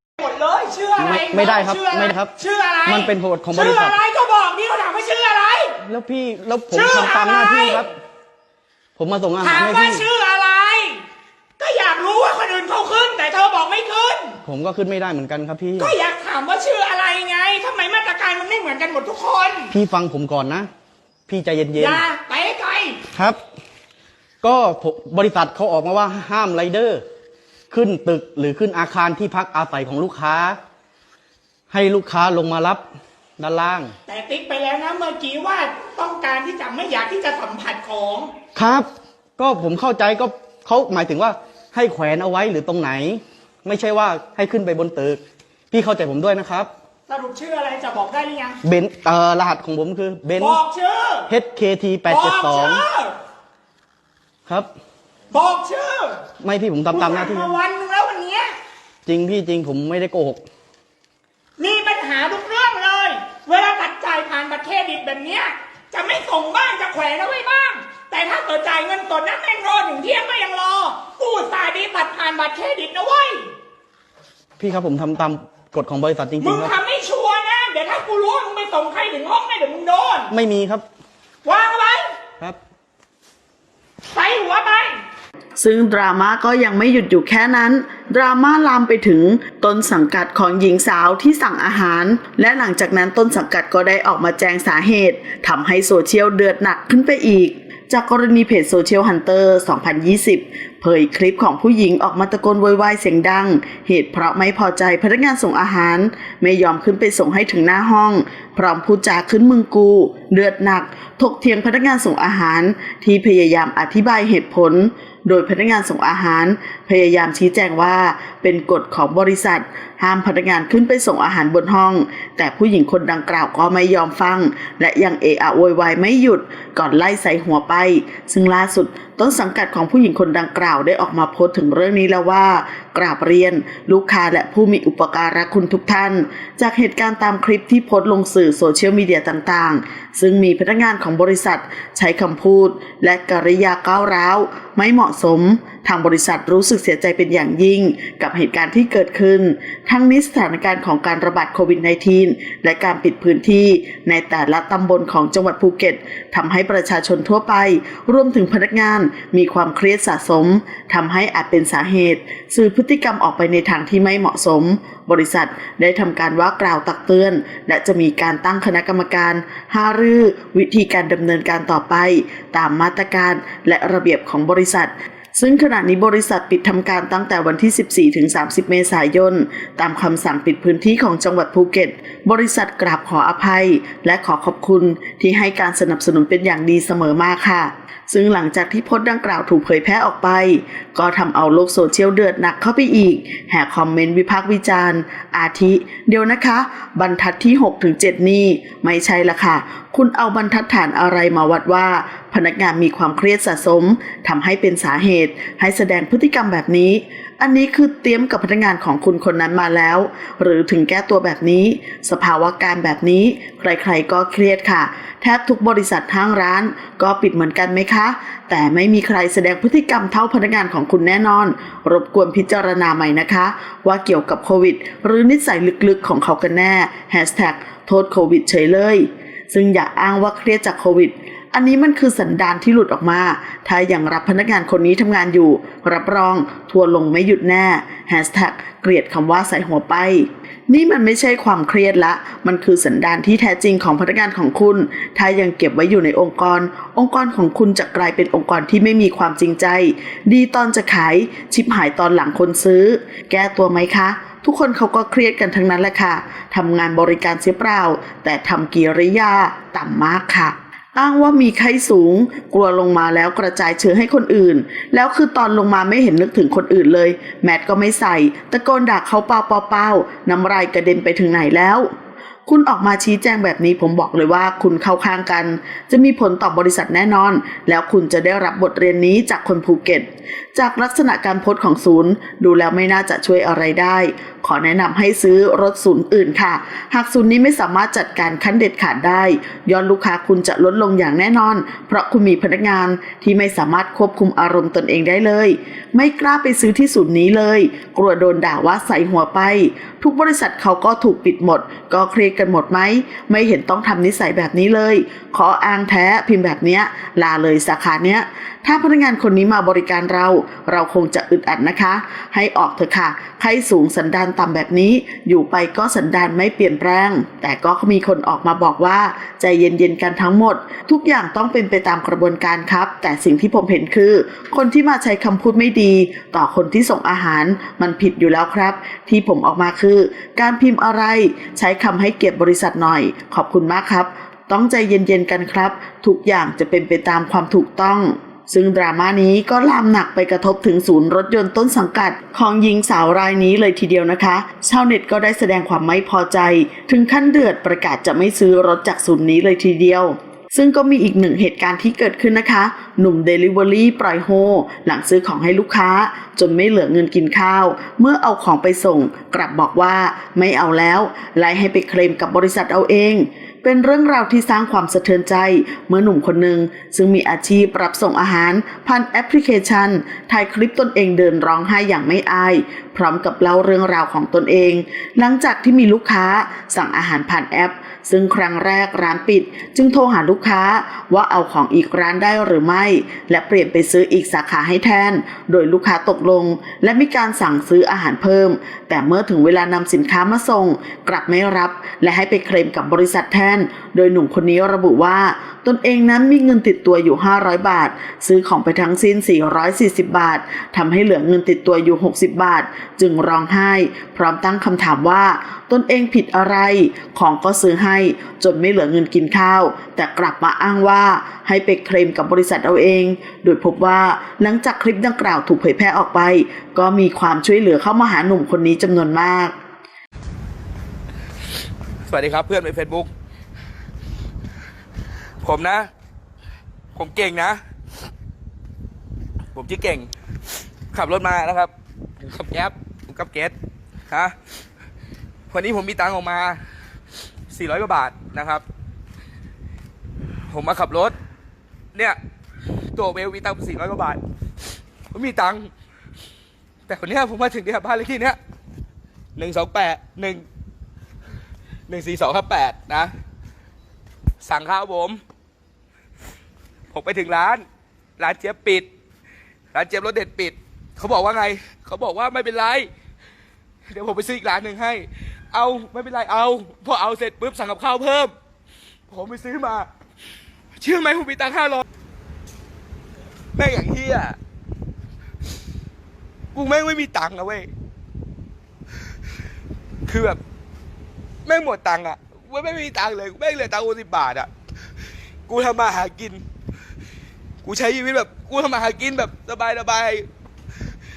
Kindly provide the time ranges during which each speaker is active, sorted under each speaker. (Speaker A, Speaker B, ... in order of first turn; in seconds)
Speaker A: 0.2-5.8, 6.7-7.8, 9.4-11.0, 11.6-14.4, 15.8-19.7, 21.8-23.0, 34.1-38.3, 47.1-48.6, 50.4-51.3, 52.1-53.1, 55.3-56.2, 56.9-58.5, 61.6-73.5, 76.4-80.3, 81.4-82.1, 84.0-85.0
Speaker B: 1.0-2.3, 2.9-4.0, 5.8-7.9, 8.9-10.1, 14.4-15.9, 19.7-20.7, 21.3-22.0, 24.4-27.0, 27.7-30.6, 31.7-32.8, 33.4-33.9, 38.5-46.7, 48.6-50.6, 51.3-52.8, 56.4-57.5, 59.0-60.4, 74.6-76.7, 80.3-80.8
Speaker C: 85.6-271.9, 272.4-419.5
Speaker D: 422.1-423.1, 425.4-425.9, 426.9-427.6, 429.5-430.1, 430.9-433.5, 435.5-436.6, 437.5-438.6, 440.5-441.1, 442.9-444.2, 445.1-445.7, 446.9-448.4, 449.4-450.4, 451.9-453.1, 454.4-455.2, 456.9-457.6, 458.2-458.9, 459.7-462.9, 463.9-468.3, 469.1-469.9, 470.8-471.8, 473.5-474.4, 476.5-477.7, 480.1-480.4, 481.4-484.5, 485.5-486.4, 487.6-490.3